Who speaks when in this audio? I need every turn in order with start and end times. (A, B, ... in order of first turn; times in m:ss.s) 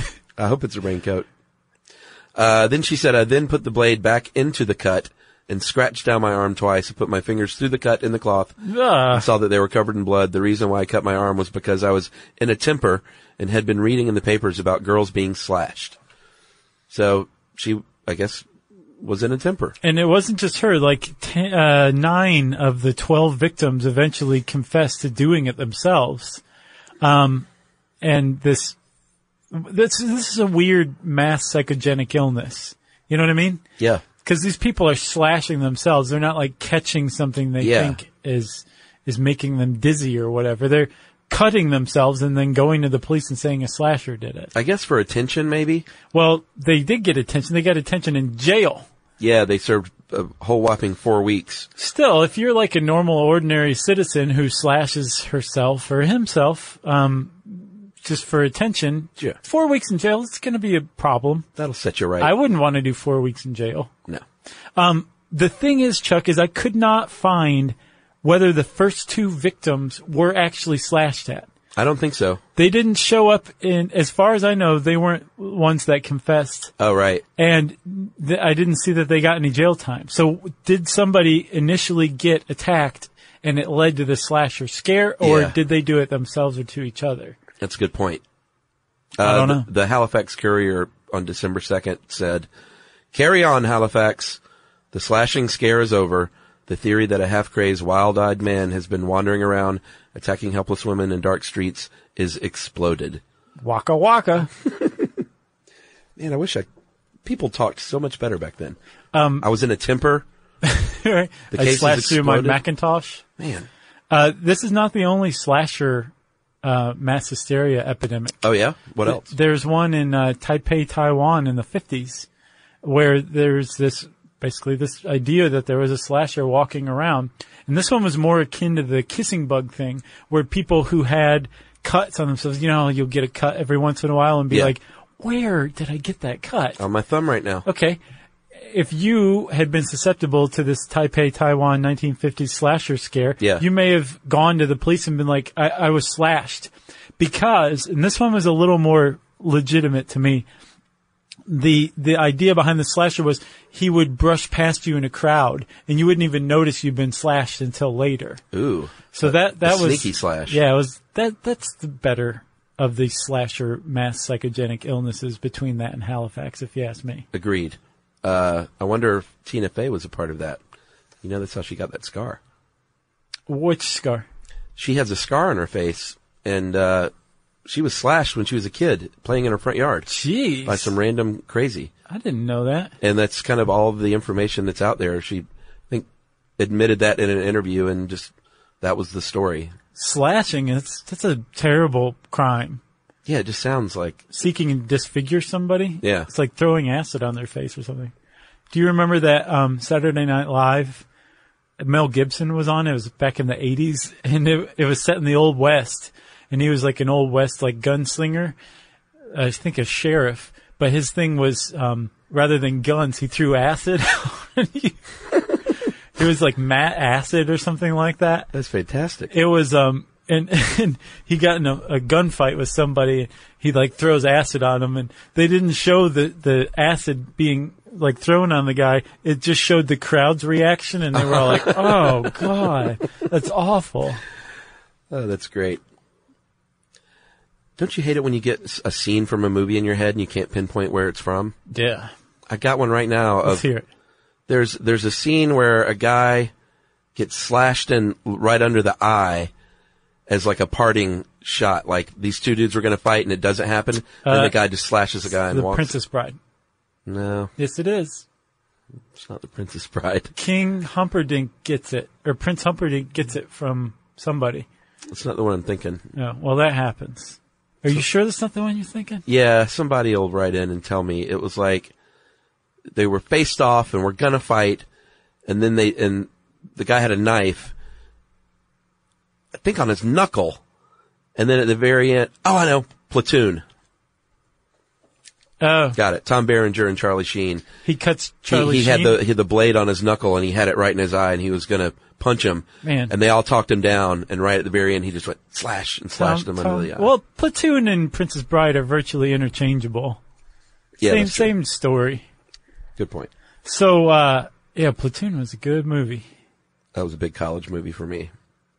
0:00.4-0:01.3 A
0:02.3-0:08.5 A
0:08.6-0:09.3 B
0:09.1-0:16.0 A
0:16.9-0:18.4 A
0:19.0-0:19.8 A
0:19.8-0:26.4 B
0:27.0-0:27.5 B
0:28.0-0:28.8 B
0:29.5-0:33.6 B
0:34.2-0:44.5 B
0:37.6-0:38.0 A
0:44.5-0:45.8 A
0:46.1-0:48.8 B
0:49.2-0:51.7 A
0:51.8-1:01.5 B
1:01.6-1:02.3 A
1:02.2-1:03.9 B
1:04.8-1:11.5 B
1:11.8-1:12.4 A
1:12.6-1:16.7 B
1:16.8-1:17.2 A
1:17.4-1:27.4 B
1:25.2-1:25.6 A
1:27.6-1:28.2 A
1:29.2-1:32.5 A
1:29.2-1:29.7 B
1:33.1-1:34.4 A
1:34.9-1:43.2 A
1:43.6-1:44.5 B
1:44.7-1:45.1 A
1:46.2-1:46.7 A
1:47.2-1:48.8 A
1:49.1-1:49.4 B
1:49.4-1:50.2 A
1:50.6-1:53.2 B
1:51.5-1:52.6 A
1:53.4-1:53.7 A
1:54.1-1:56.1 B
1:56.6-1:58.4 B
1:58.4-1:59.3 A
1:59.0-2:02.3 B
2:02.8-2:16.8 B
2:16.8-2:17.6 A
2:17.6-2:18.0 B
2:18.6-2:30.4 B
2:23.4-2:23.6 A
2:31.5-2:38.4 B
2:38.5-2:40.6 A
2:39.1-2:47.2 B
2:47.3-2:50.6 A
2:51.2-2:52.4 A
2:53.5-2:54.3 B
2:54.8-2:57.1 A
2:57.6-3:00.1 A
3:00.1-3:00.9 B
3:00.6-3:01.9 A
3:02.1-3:02.9 B
3:03.0-3:06.0 A
3:06.6-3:09.7 A
3:09.9-3:12.8 B
3:13.2-3:14.2 A
3:14.3-3:18.1 B
3:16.0-3:16.3 A
3:18.7-3:21.0 B
3:21.8-3:28.5 B
3:29.3-3:35.0 B
3:36.1-3:38.5 B
3:38.5-3:39.3 A
3:39.3-3:54.2 B
3:51.2-3:52.3 A
3:55.1-3:55.8 A
3:57.8-4:01.6 A
4:01.7-4:02.1 B
4:02.5-4:03.6 A
4:03.4-4:03.8 B
4:04.5-4:06.5 A
4:07.2-4:09.5 A
4:10.3-4:15.9 A
4:14.2-4:14.5 B
4:15.5-4:16.4 B
4:17.0-4:17.5 A
4:17.6-4:18.2 B
4:19.1-4:20.3 A
4:20.4-4:24.6 B
4:25.1-4:26.0 A
4:26.2-4:29.2 B
4:29.3-4:31.9 A
4:32.9-4:34.8 A
4:35.4-4:37.7 A
4:39.5-4:40.6 A
4:41.4-4:43.6 A
4:45.6-4:46.0 B
4:46.0-4:47.6 A
4:47.8-4:49.2 B
4:48.5-4:57.1 A
4:52.8-4:53.1 B
4:56.2-5:00.2 B
5:01.0-5:01.5 A
5:01.0-5:02.2 B
5:03.0-5:03.3 A
5:03.6-5:06.2 B
5:06.9-5:08.3 A